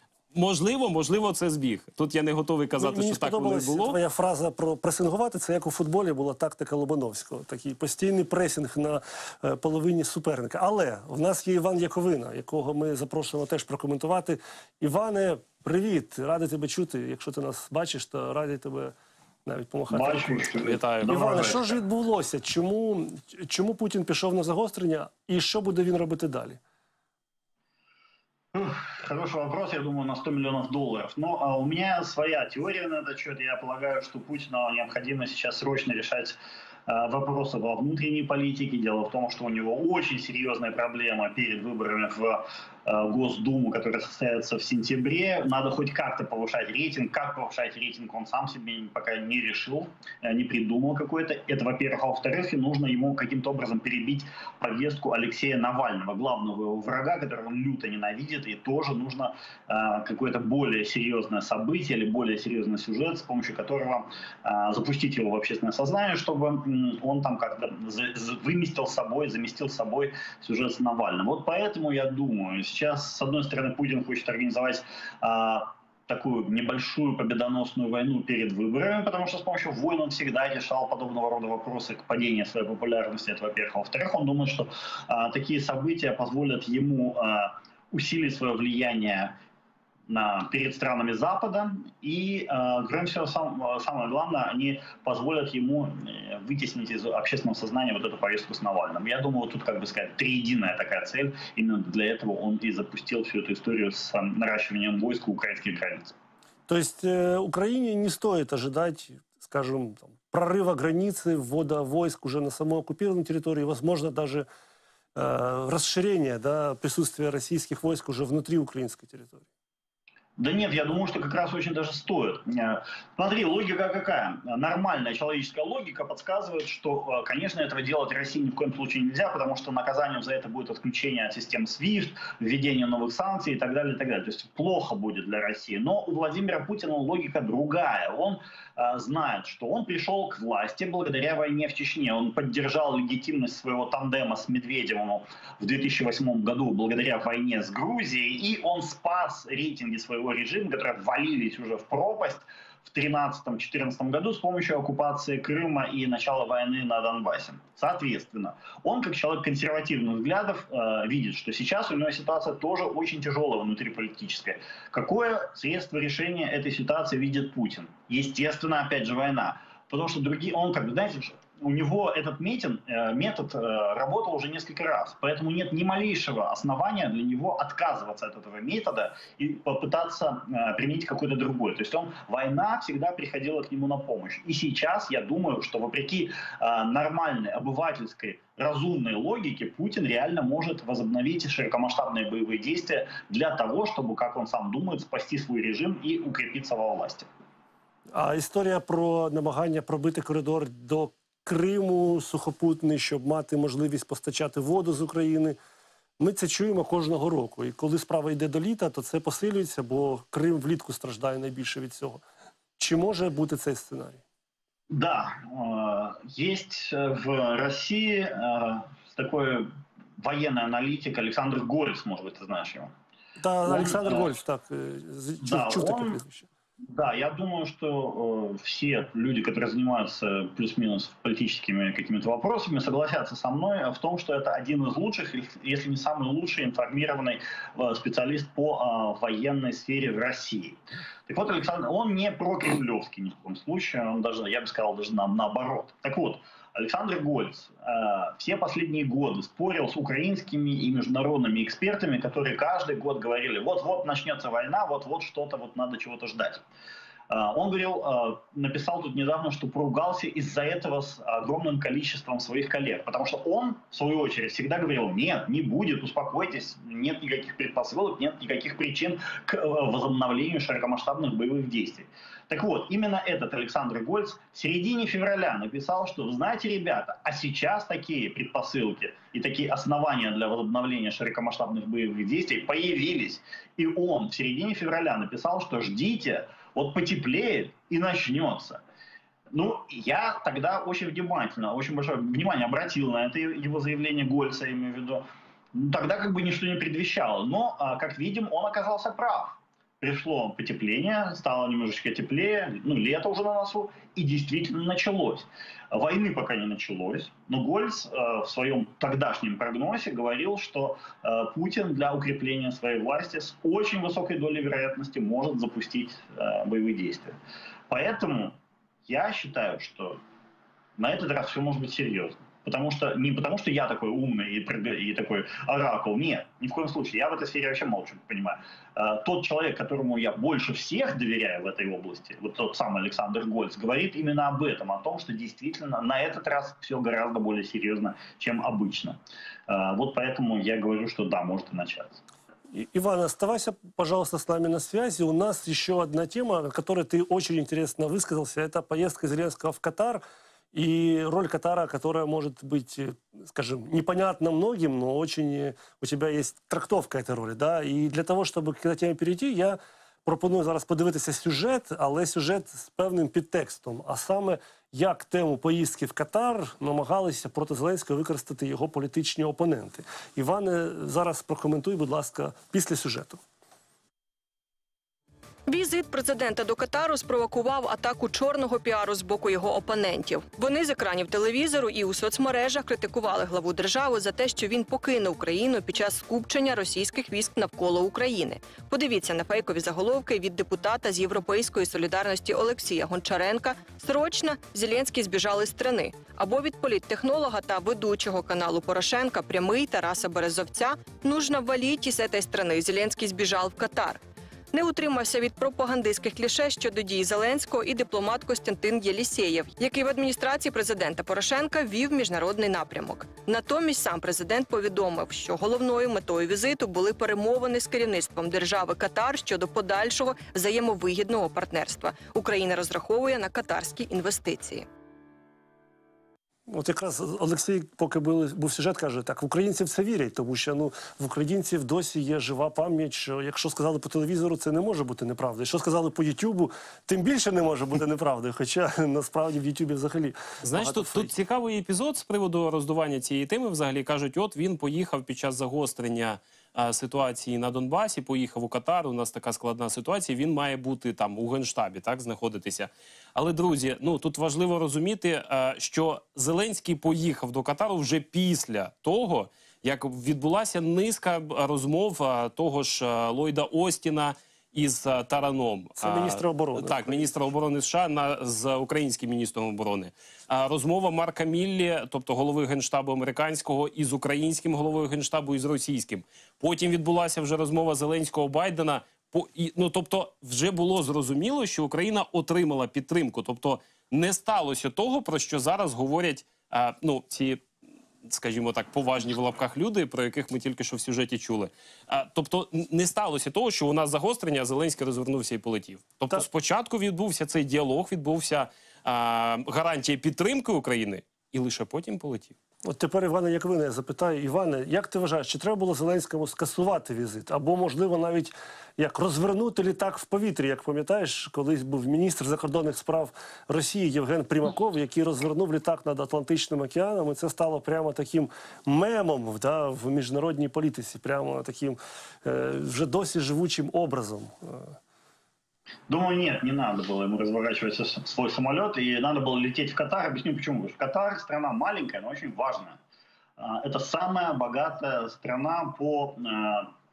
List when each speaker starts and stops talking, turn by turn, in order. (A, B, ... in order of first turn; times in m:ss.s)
0:00.3-0:04.0 A
0:02.8-0:18.9 B
0:19.5-0:26.6 B
0:19.9-0:21.8 C
0:20.6-0:21.6 A
0:28.5-1:29.4 C
1:30.1-1:46.1 C
1:46.7-1:54.5 B
1:55.2-1:59.4 B
2:00.4-3:17.3 C
3:18.1-3:25.6 B
3:26.2-3:32.2 B
3:32.8-3:34.2 B
3:34.9-3:42.9 C
3:43.4-3:46.5 B
3:43.7-3:44.3 C
3:45.4-3:46.2 C
3:46.9-4:16.6 C
4:17.3-4:48.8 C
4:49.5-4:55.2 C
4:55.7-5:17.4 C
5:17.9-5:20.2 C
5:21.0-5:42.2 C
5:42.7-6:13.4 B
6:15.7-6:44.2 D
6:44.7-7:04.9 D
7:06.7-7:21.3 B
7:20.6-8:07.6 A
7:46.0-7:47.3 B
8:08.3-8:22.6 A
8:22.8-8:45.0 B
8:46.1-8:53.0 C
8:53.6-8:56.9 C